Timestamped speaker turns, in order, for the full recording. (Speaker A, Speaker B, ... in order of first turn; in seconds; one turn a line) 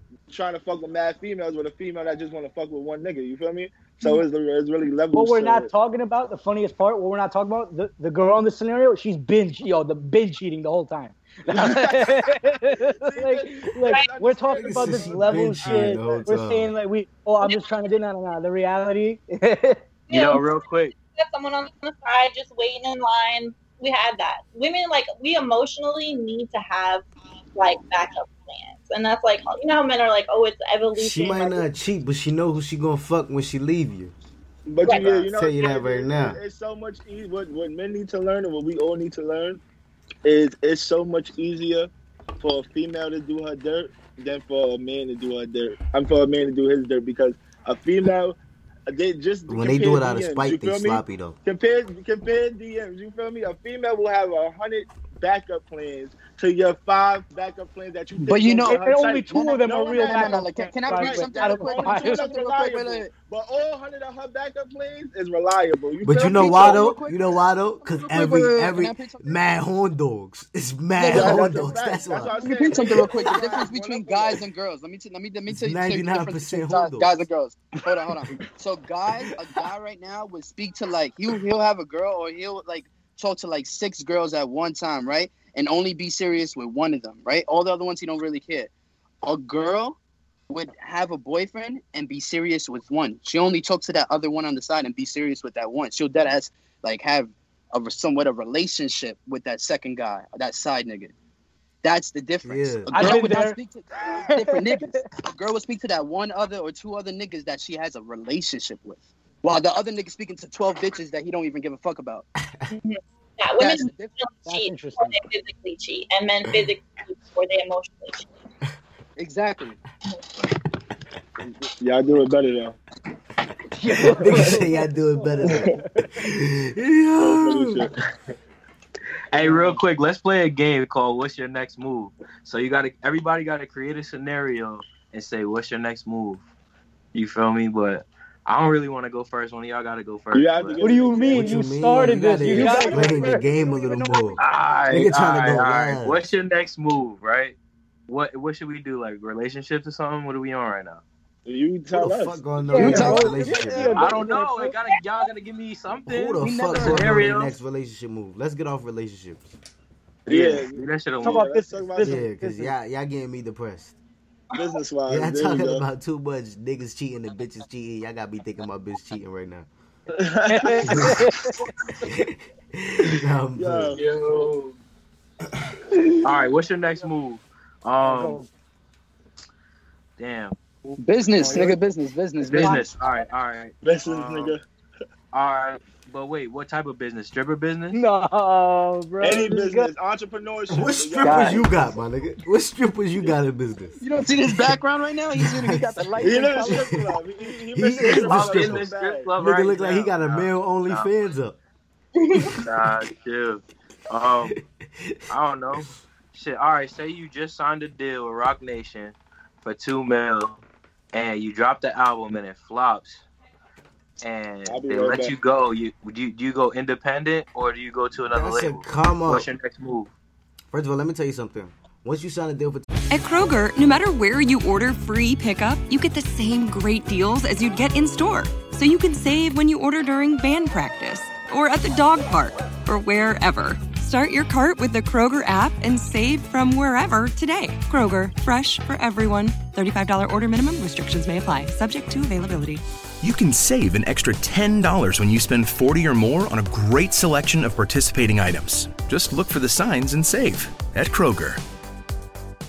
Speaker A: 0.3-5.7
Speaker B: 5.1-19.8
Speaker A: 11.5-16.3
Speaker C: 14.5-16.7
Speaker D: 20.1-21.0
Speaker E: 20.1-20.5
Speaker E: 21.1-27.0
Speaker E: 27.6-31.6
Speaker C: 31.0-34.1
Speaker A: 34.7-39.6
Speaker E: 34.9-35.2
Speaker C: 35.3-36.4
Speaker A: 40.2-48.4
Speaker A: 48.9-66.9
Speaker C: 49.5-51.4
Speaker F: 58.2-58.8
Speaker B: 58.6-62.3
Speaker F: 59.3-63.2
Speaker C: 66.0-72.4
Speaker F: 66.3-69.4
Speaker F: 71.0-71.7
Speaker A: 71.1-74.4
Speaker F: 72.2-88.7
Speaker C: 73.1-73.4
Speaker C: 75.5-77.3
Speaker F: 89.2-90.0
Speaker F: 90.5-101.1
Speaker F: 101.8-112.3
Speaker C: 102.5-103.0
Speaker B: 102.9-103.6
Speaker B: 104.3-105.0
Speaker E: 112.7-118.3
Speaker F: 113.6-114.2
Speaker B: 114.5-115.2
Speaker F: 119.2-119.8
Speaker A: 121.4-122.8
Speaker B: 123.7-126.0
Speaker A: 124.1-124.5
Speaker C: 124.2-127.9
Speaker A: 127.2-127.9
Speaker D: 129.3-136.4
Speaker D: 137.1-140.8
Speaker A: 140.3-141.8
Speaker B: 140.8-144.4
Speaker C: 141.3-146.3
Speaker F: 142.7-143.1
Speaker A: 142.7-143.1
Speaker D: 144.4-147.6
Speaker D: 148.1-151.0
Speaker A: 151.5-154.0
Speaker C: 151.9-154.0
Speaker B: 152.7-154.8
Speaker F: 152.7-153.8
Speaker D: 153.9-157.5
Speaker C: 156.1-159.5
Speaker F: 156.4-157.3
Speaker A: 160.3-162.2
Speaker D: 160.3-161.5
Speaker B: 161.2-162.7
Speaker C: 162.0-164.0
Speaker E: 164.5-164.8
Speaker A: 164.6-165.8
Speaker C: 165.1-169.7
Speaker A: 170.2-171.3
Speaker B: 170.5-171.7
Speaker C: 170.9-171.2
Speaker C: 172.0-174.0
Speaker A: 173.6-174.0
Speaker D: 173.9-174.8
Speaker D: 176.2-178.4
Speaker B: 178.0-178.5
Speaker D: 180.2-181.8
Speaker F: 181.0-183.0
Speaker D: 182.4-184.6
Speaker B: 182.6-182.8
Speaker A: 183.8-184.6
Speaker D: 185.3-188.0
Speaker B: 187.9-189.9
Speaker A: 189.2-191.9
Speaker C: 190.7-194.7
Speaker F: 191.2-191.7
Speaker F: 194.0-196.9
Speaker C: 195.4-197.2
Speaker A: 196.2-199.3
Speaker C: 197.7-201.6
Speaker D: 198.2-201.1
Speaker E: 202.2-202.6
Speaker D: 202.6-204.6
Speaker C: 204.5-205.2
Speaker D: 205.3-210.6
Speaker D: 211.1-213.2
Speaker D: 214.2-220.1
Speaker A: 214.7-215.3
Speaker C: 218.3-219.5
Speaker C: 220.7-222.9
Speaker G: 223.1-242.8
Speaker H: 243.2-251.6